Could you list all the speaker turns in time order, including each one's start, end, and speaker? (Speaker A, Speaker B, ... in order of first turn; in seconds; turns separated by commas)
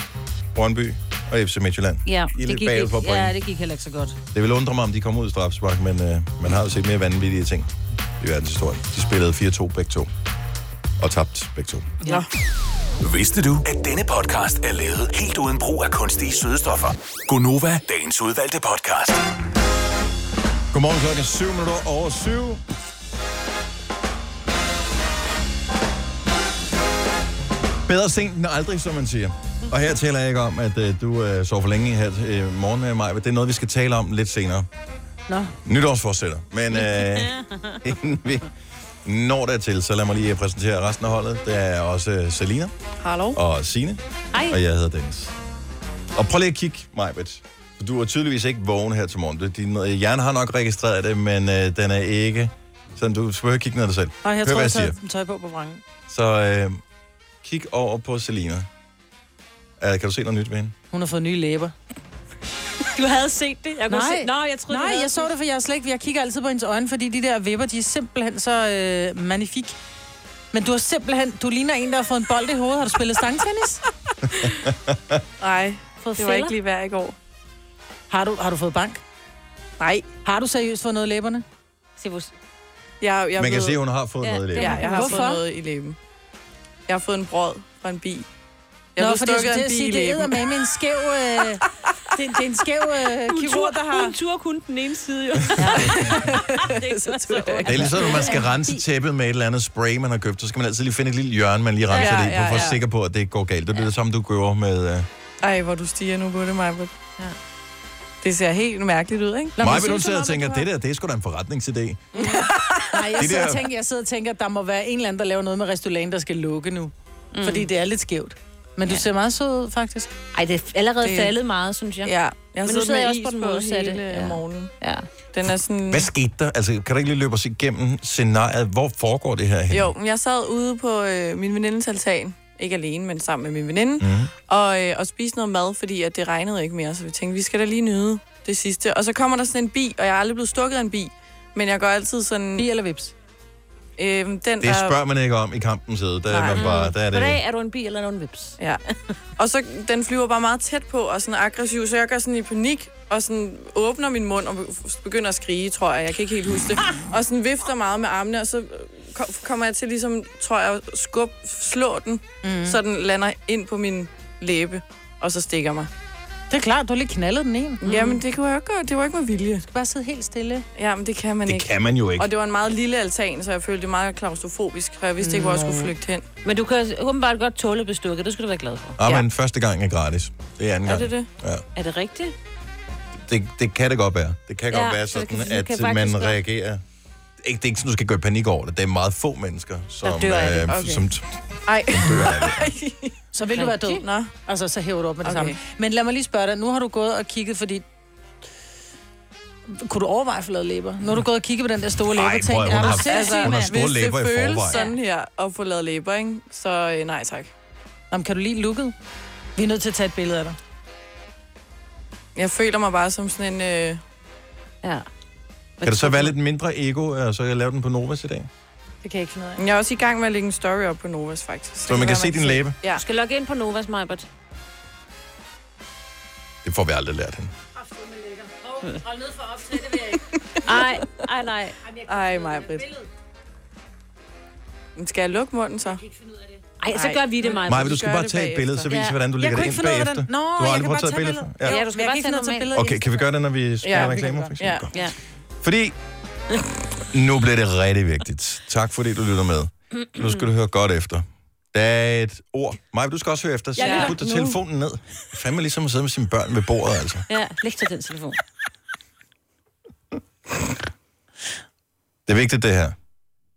Speaker A: 0.5-3.4, Speaker B: 2.0-4.2, Speaker A: 4.3-10.1, Speaker A: 11.0-12.0, Speaker C: 13.0-19.2, Speaker A: 20.7-22.6, Speaker A: 27.9-34.7, Speaker A: 35.6-38.5, Speaker B: 36.7-37.8, Speaker A: 39.0-42.7, Speaker D: 43.0-43.4, Speaker A: 43.3-45.3, Speaker A: 46.1-55.0, Speaker E: 54.2-55.8, Speaker A: 56.1-56.8, Speaker A: 57.4-58.7, Speaker A: 59.8-60.7, Speaker E: 60.9-61.7, Speaker B: 62.9-65.3, Speaker E: 63.9-69.8, Speaker E: 70.5-73.8, Speaker D: 75.4-77.2, Speaker B: 76.0-76.5, Speaker E: 78.1-79.0, Speaker D: 79.8-80.1, Speaker E: 80.2-81.4, Speaker B: 82.0-82.3, Speaker D: 83.0-83.8, Speaker A: 83.4-84.9, Speaker B: 84.2-85.2, Speaker D: 84.6-86.0, Speaker E: 84.6-85.4, Speaker D: 86.9-88.2, Speaker D: 89.0-90.5, Speaker E: 89.0-91.6, Speaker E: 92.2-94.1, Speaker B: 93.3-98.5, Speaker D: 96.2-98.2, Speaker A: 97.6-105.1, Speaker B: 101.9-102.7, Speaker D: 102.0-102.8, Speaker D: 105.4-106.9, Speaker D: 108.2-109.6, Speaker E: 109.6-110.6, Speaker A: 109.6-112.1, Speaker D: 112.1-112.9, Speaker E: 112.2-120.1, Speaker A: 113.2-113.7, Speaker B: 117.3-117.7, Speaker B: 120.3-125.0, Speaker D: 121.0-121.3, Speaker D: 122.0-124.7, Speaker D: 125.3-126.1, Speaker A: 125.9-129.9, Speaker D: 129.7-142.7, Speaker A: 134.0-134.3, Speaker E: 142.6-143.1, Speaker D: 144.0-144.9, Speaker A: 144.6-147.4, Speaker D: 146.3-146.7, Speaker B: 146.5-149.0, Speaker D: 149.4-165.9, Speaker E: 162.4-162.8, Speaker E: 166.5-168.2, Speaker D: 167.8-169.6, Speaker E: 169.6-170.7, Speaker D: 170.8-176.2, Speaker A: 171.4-172.3, Speaker E: 175.2-175.9, Speaker B: 176.4-179.0, Speaker A: 179.0-181.6, Speaker B: 180.9-181.1, Speaker D: 181.0-181.3, Speaker B: 181.7-182.3, Speaker A: 183.3-186.8, Speaker B: 184.7-186.4, Speaker A: 187.4-191.3, Speaker B: 190.0-191.0, Speaker D: 190.7-191.0, Speaker D: 191.7-193.1, Speaker A: 191.9-192.7, Speaker E: 193.3-197.8, Speaker B: 193.5-194.0, Speaker D: 194.0-194.3, Speaker D: 195.2-195.6, Speaker E: 199.7-203.7, Speaker A: 202.1-204.8, Speaker B: 202.7-203.8, Speaker D: 203.1-207.5, Speaker E: 208.1-208.9, Speaker E: 209.6-210.6, Speaker D: 212.3-214.0, Speaker B: 215.8-216.3, Speaker A: 215.8-218.5, Speaker E: 219.0-219.6, Speaker D: 219.6-223.0, Speaker A: 221.8-222.8, Speaker B: 222.9-224.3, Speaker A: 226.6-227.5, Speaker E: 228.0-230.1, Speaker D: 230.1-230.8, Speaker B: 230.6-231.8, Speaker E: 231.9-232.8, Speaker D: 232.1-232.9, Speaker D: 234.9-236.0, Speaker B: 236.8-238.1, Speaker D: 236.9-238.9, Speaker A: 237.6-241.8, Speaker E: 239.3-243.2, Speaker B: 241.6-242.7, Speaker A: 242.7-244.9, Speaker D: 243.8-244.9, Speaker E: 243.9-244.4, Speaker A: 245.6-245.9, Speaker A: 247.1-257.2, Speaker B: 249.9-250.5, Speaker B: 253.8-254.2, Speaker D: 253.8-254.5, Speaker B: 257.3-258.4, Speaker A: 262.2-262.9